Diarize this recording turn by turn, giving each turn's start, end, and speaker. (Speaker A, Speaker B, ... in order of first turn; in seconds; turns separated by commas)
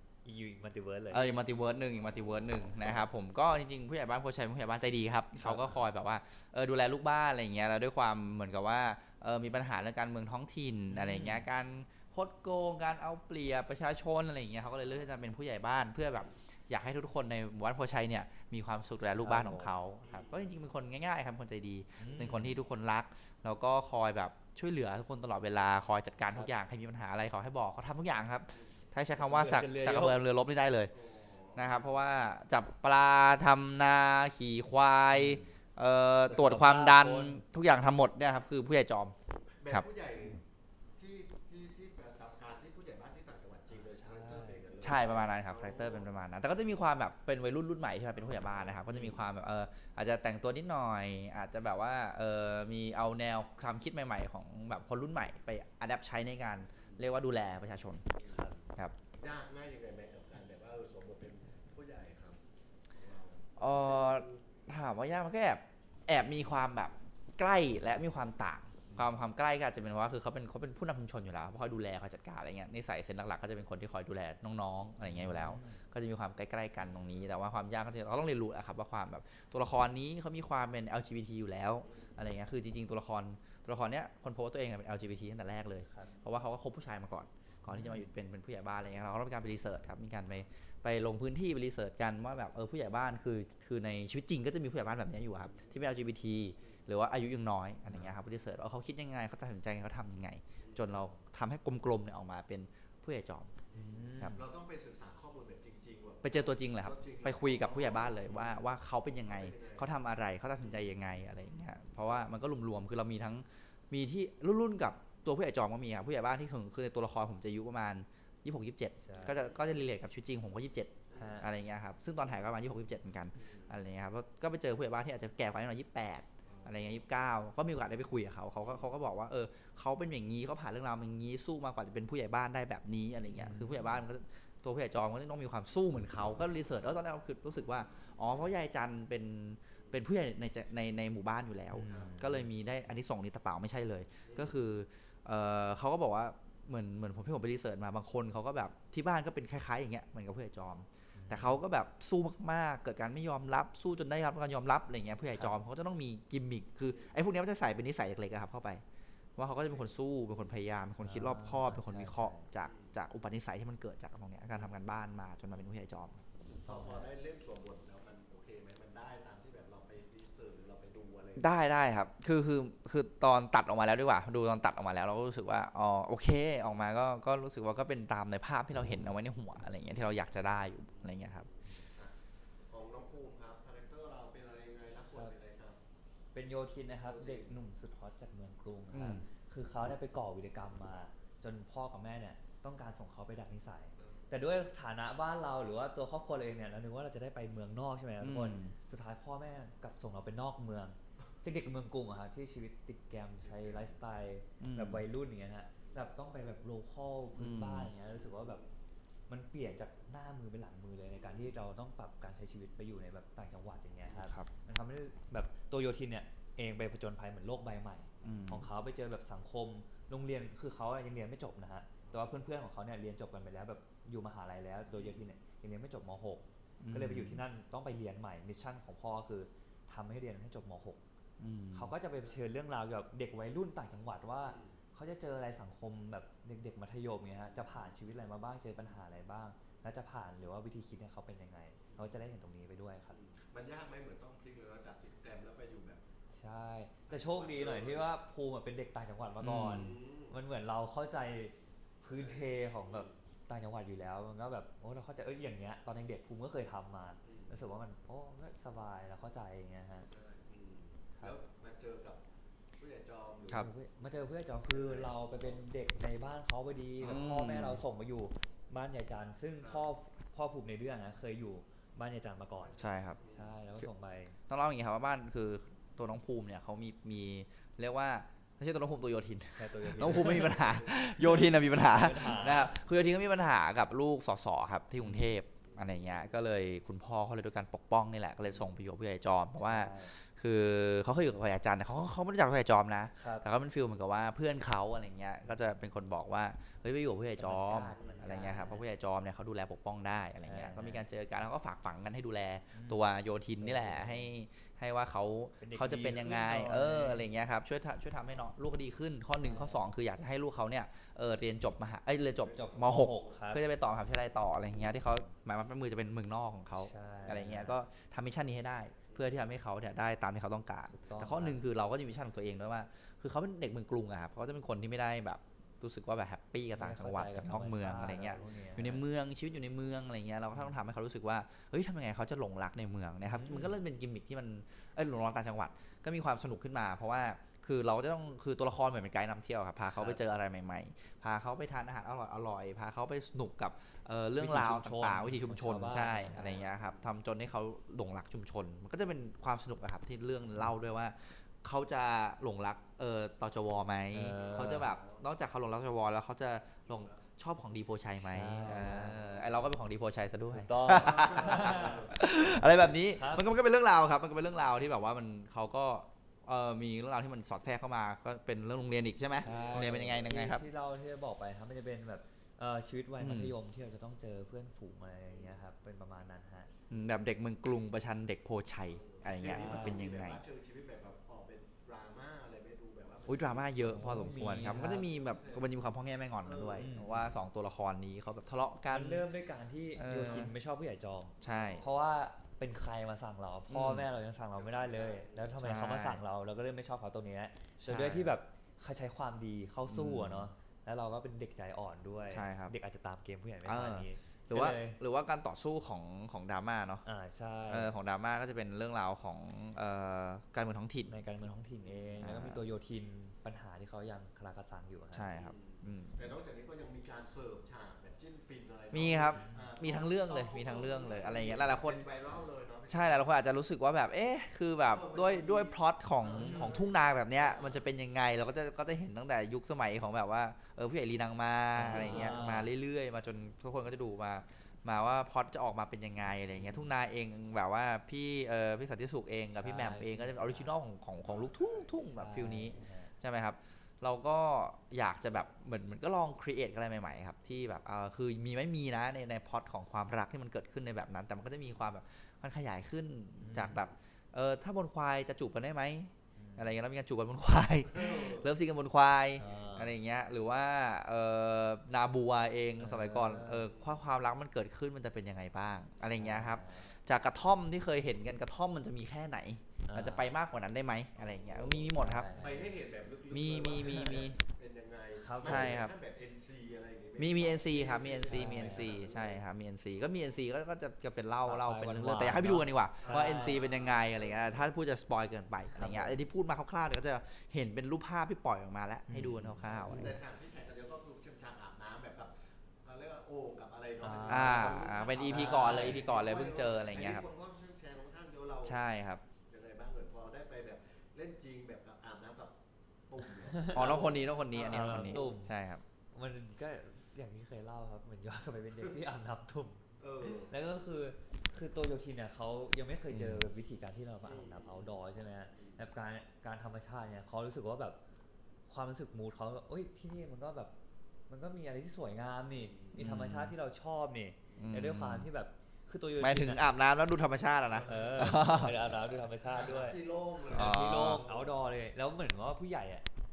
Speaker A: 0.2-1.3, Speaker B: 1.1-30.9, Speaker C: 1.5-2.8, Speaker A: 5.4-5.8, Speaker A: 10.9-11.4, Speaker A: 19.2-19.7, Speaker C: 20.0-20.6, Speaker A: 22.0-22.6, Speaker C: 28.5-28.8, Speaker A: 29.2-30.2, Speaker C: 30.9-32.1, Speaker B: 31.6-39.1, Speaker A: 35.1-35.5, Speaker A: 36.3-37.4, Speaker C: 39.6-40.4, Speaker C: 40.9-46.1, Speaker A: 43.7-44.7, Speaker B: 44.8-58.1, Speaker C: 48.1-49.3, Speaker C: 56.8-57.0, Speaker C: 58.1-64.4, Speaker B: 63.6-103.6, Speaker A: 75.0-75.8, Speaker C: 81.8-82.2, Speaker A: 85.8-86.1, Speaker A: 87.7-88.1, Speaker C: 95.4-95.8, Speaker C: 97.9-98.2, Speaker C: 100.6-101.1, Speaker C: 103.7-108.7, Speaker A: 103.7-104.4, Speaker B: 104.2-104.4, Speaker B: 106.2-158.8, Speaker C: 109.2-109.9, Speaker C: 110.6-111.0, Speaker A: 119.0-119.4, Speaker C: 119.1-119.7, Speaker C: 121.1-121.5, Speaker A: 121.1-121.5, Speaker C: 123.3-123.8, Speaker C: 126.4-127.0, Speaker C: 128.6-128.9, Speaker A: 133.3-134.0, Speaker C: 137.8-138.3, Speaker C: 139.7-140.0, Speaker A: 141.7-142.5, Speaker C: 141.8-142.2, Speaker C: 144.2-144.6, Speaker A: 151.1-151.6, Speaker A: 155.3-155.6, Speaker C: 156.9-157.1, Speaker B: 159.4-166.2, Speaker C: 159.6-159.9, Speaker A: 161.0-162.5, Speaker C: 162.6-162.9, Speaker C: 166.6-171.6, Speaker A: 166.7-167.1, Speaker B: 171.4-181.5, Speaker C: 180.9-185.8, Speaker A: 186.3-208.6, Speaker C: 187.0-187.6, Speaker B: 188.9-189.2, Speaker C: 194.0-194.3, Speaker B: 198.2-198.7, Speaker C: 203.4-204.0, Speaker B: 204.6-205.0, Speaker C: 205.8-206.6, Speaker B: 207.3-207.9, Speaker C: 208.0-208.7, Speaker A: 209.3-231.0, Speaker C: 211.1-211.5, Speaker B: 214.2-214.5, Speaker B: 218.2-218.7, Speaker C: 222.0-222.3, Speaker C: 224.9-225.3, Speaker B: 226.8-227.4, Speaker B: 231.4-231.9, Speaker A: 231.7-243.2, Speaker C: 234.4-234.8, Speaker C: 237.5-237.9, Speaker C: 241.9-242.2, Speaker C: 243.1-246.0, Speaker A: 246.3-260.1, Speaker C: 247.1-248.1, Speaker B: 249.4-250.0, Speaker C: 249.7-250.4, Speaker C: 252.1-253.2, Speaker C: 257.2-257.6, Speaker C: 260.1-262.2, Speaker C: 262.8-264.1, Speaker A: 263.5-274.4, Speaker C: 264.7-265.6, Speaker B: 267.0-267.8, Speaker C: 269.6-269.9, Speaker C: 272.5-273.5, Speaker B: 272.8-273.2, Speaker B: 274.5-370.6, Speaker A: 279.6-282.7, Speaker C: 280.2-282.7, Speaker A: 285.0-285.3, Speaker C: 285.6-286.3, Speaker A: 289.5-290.1, Speaker A: 293.1-293.5, Speaker A: 297.4-298.8, Speaker C: 297.9-298.7, Speaker A: 300.4-301.0, Speaker A: 302.7-303.0, Speaker A: 303.6-304.3, Speaker A: 305.6-307.2, Speaker A: 309.4-309.9, Speaker C: 312.2-313.4, Speaker A: 312.5-313.6, Speaker A: 316.7-317.8, Speaker C: 319.1-319.5, Speaker A: 320.9-321.6, Speaker A: 326.7-329.0, Speaker A: 330.5-330.8, Speaker A: 333.3-333.8, Speaker A: 339.9-340.2, Speaker A: 344.4-346.5, Speaker C: 346.3-347.1, Speaker A: 354.1-354.9, Speaker C: 354.2-355.2, Speaker C: 356.9-357.2, Speaker A: 358.1-359.3, Speaker C: 358.8-359.5, Speaker A: 360.5-363.5, Speaker C: 360.8-362.2, Speaker C: 369.4-370.4, Speaker A: 369.4-376.7, Speaker B: 373.2-373.5, Speaker C: 375.3-375.6, Speaker B: 376.9-380.4, Speaker C: 378.9-386.9, Speaker A: 379.4-380.1, Speaker B: 383.3-389.2, Speaker A: 383.8-385.1, Speaker A: 386.8-387.3, Speaker A: 388.9-405.0, Speaker B: 389.9-390.5, Speaker B: 391.4-391.9, Speaker C: 391.4-392.1, Speaker B: 393.7-394.1, Speaker C: 394.6-395.6, Speaker B: 395.6-396.2, Speaker B: 397.8-398.3, Speaker B: 399.9-400.5, Speaker B: 402.3-402.8, Speaker B: 403.6-407.0, Speaker A: 407.0-407.9, Speaker B: 407.7-411.2, Speaker A: 411.1-415.3, Speaker C: 411.8-412.1, Speaker B: 412.2-412.6, Speaker B: 415.1-416.3, Speaker C: 415.3-423.3, Speaker B: 418.9-422.1, Speaker A: 419.3-419.7, Speaker B: 422.9-472.3, Speaker C: 424.9-427.9, Speaker A: 431.8-432.7, Speaker C: 431.9-432.4, Speaker C: 436.5-436.9, Speaker A: 439.5-440.7, Speaker C: 441.2-442.0, Speaker A: 442.1-443.1, Speaker A: 453.4-453.8, Speaker A: 456.3-456.8, Speaker C: 457.9-458.5, Speaker A: 459.4-460.0, Speaker A: 462.8-463.7, Speaker C: 463.7-464.0, Speaker A: 466.1-466.9, Speaker A: 469.9-470.3, Speaker C: 471.1-479.4, Speaker A: 471.9-472.7, Speaker B: 473.3-474.4, Speaker A: 475.1-475.8, Speaker B: 475.4-475.9, Speaker B: 477.2-490.2, Speaker A: 478.3-478.9, Speaker A: 481.4-483.6, Speaker C: 483.0-484.7, Speaker A: 485.7-486.2, Speaker A: 489.1-490.2, Speaker C: 489.6-498.8, Speaker A: 494.0-496.0, Speaker B: 494.3-497.2, Speaker B: 498.6-499.2, Speaker C: 499.4-502.6, Speaker C: 503.1-505.4, Speaker A: 503.5-504.0, Speaker B: 503.7-505.8, Speaker A: 504.6-505.5, Speaker A: 506.1-518.0, Speaker C: 510.0-510.6, Speaker B: 513.1-513.5, Speaker C: 514.2-514.9, Speaker C: 515.5-515.9, Speaker A: 518.7-520.7, Speaker A: 521.3-526.6, Speaker C: 522.5-522.9, Speaker B: 523.0-523.5, Speaker C: 524.5-524.8, Speaker B: 524.6-525.3, Speaker B: 526.2-529.2, Speaker C: 527.7-528.6, Speaker A: 527.9-533.0, Speaker C: 529.4-531.6, Speaker B: 530.5-531.2